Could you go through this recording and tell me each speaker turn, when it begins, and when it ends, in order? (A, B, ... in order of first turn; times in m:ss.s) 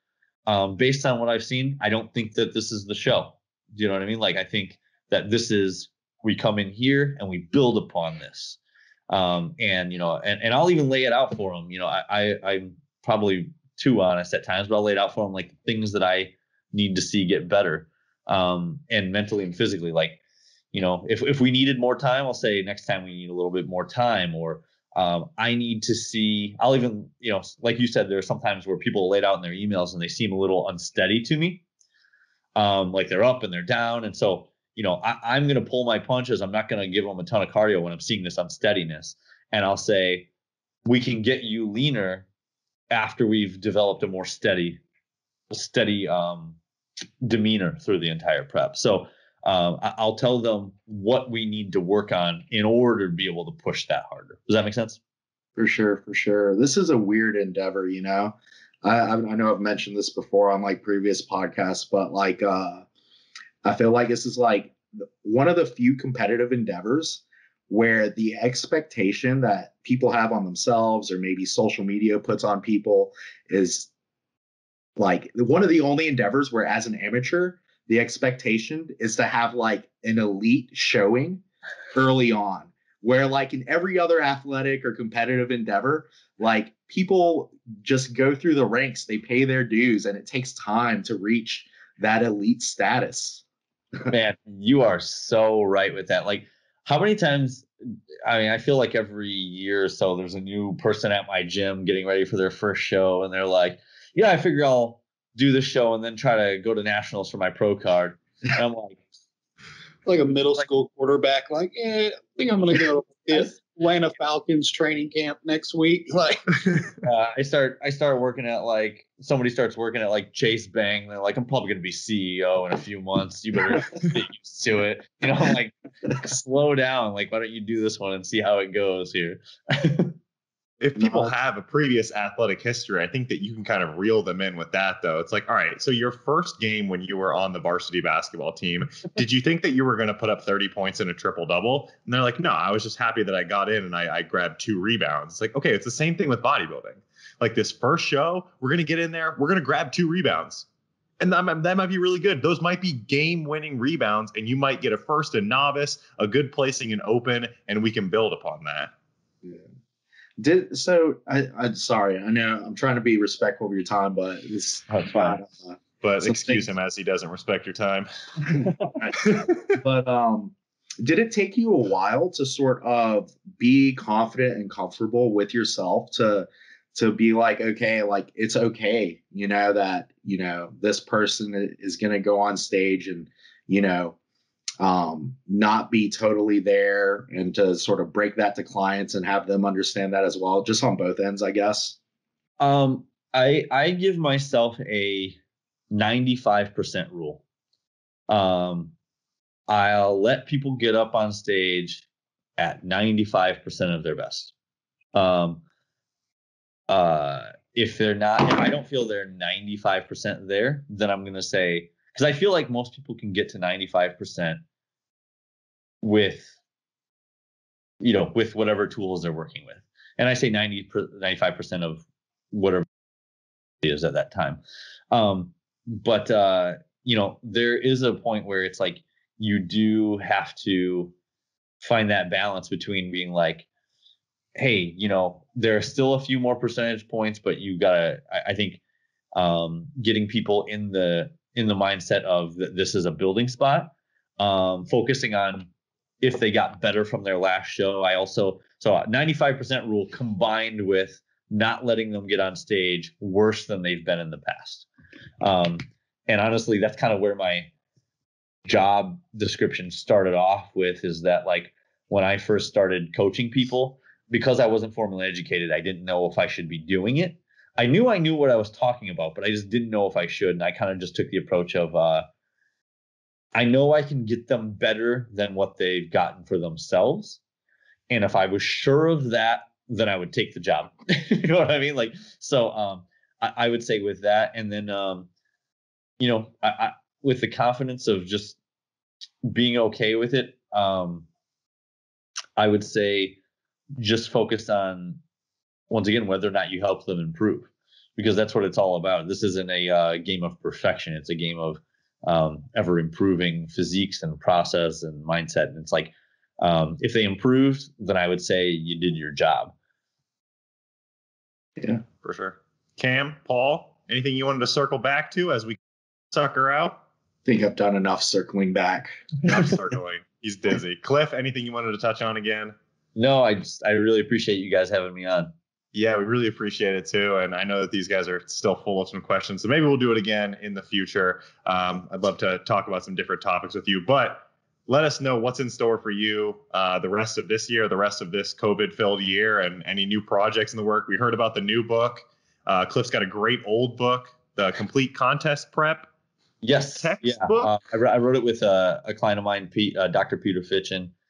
0:00.5-0:08.6 A
0:09.1-0:20.2 A
0:20.7-0:31.6 A
0:32.6-0:40.3 A
0:40.8-0:42.3 A
0:42.9-0:44.8 A
0:45.5-0:46.6 A
0:47.2-0:55.0 A
0:55.6-1:02.9 B
1:03.6-1:13.9 B
1:15.0-1:21.4 B
1:21.9-1:33.4 B
1:34.1-1:37.7 A
1:38.3-1:49.0 A
1:50.0-1:56.9 C
1:57.0-2:10.2 A
2:10.8-2:30.7 D
2:11.0-2:11.3 B
2:31.2-2:38.9 D
2:40.4-2:46.7 B
2:44.9-2:45.4 A
2:46.0-2:48.5 D
2:49.0-3:04.2 B
2:49.2-2:49.6 D
3:04.8-3:12.0 B
3:12.6-3:15.4 A
3:15.9-3:17.4 A
3:18.3-3:18.9 A
3:19.7-3:22.1 A
3:22.6-3:24.5 A
3:25.1-3:25.6 A
3:26.9-3:34.6 A
3:36.0-3:36.6 A
3:38.0-3:42.9 A
3:43.8-3:51.1 A
3:51.8-3:53.7 A
3:54.6-3:58.8 A
3:59.4-4:05.7 A
4:06.2-4:14.9 A
4:15.4-4:17.7 A
4:18.6-4:32.3 A
4:33.6-4:37.4 A
4:38.1-4:45.3 A
4:46.2-4:48.6 A
4:49.5-4:51.3 A
4:52.6-4:53.4 A
4:54.0-4:55.2 A
4:55.9-5:09.7 A
5:12.1-5:15.8 D
5:16.3-5:17.0 D
5:17.5-5:19.2 B
5:19.4-5:22.8 D
5:23.2-5:25.5 A
5:25.9-5:46.1 D
5:46.6-5:51.1 A
5:47.0-5:47.7 D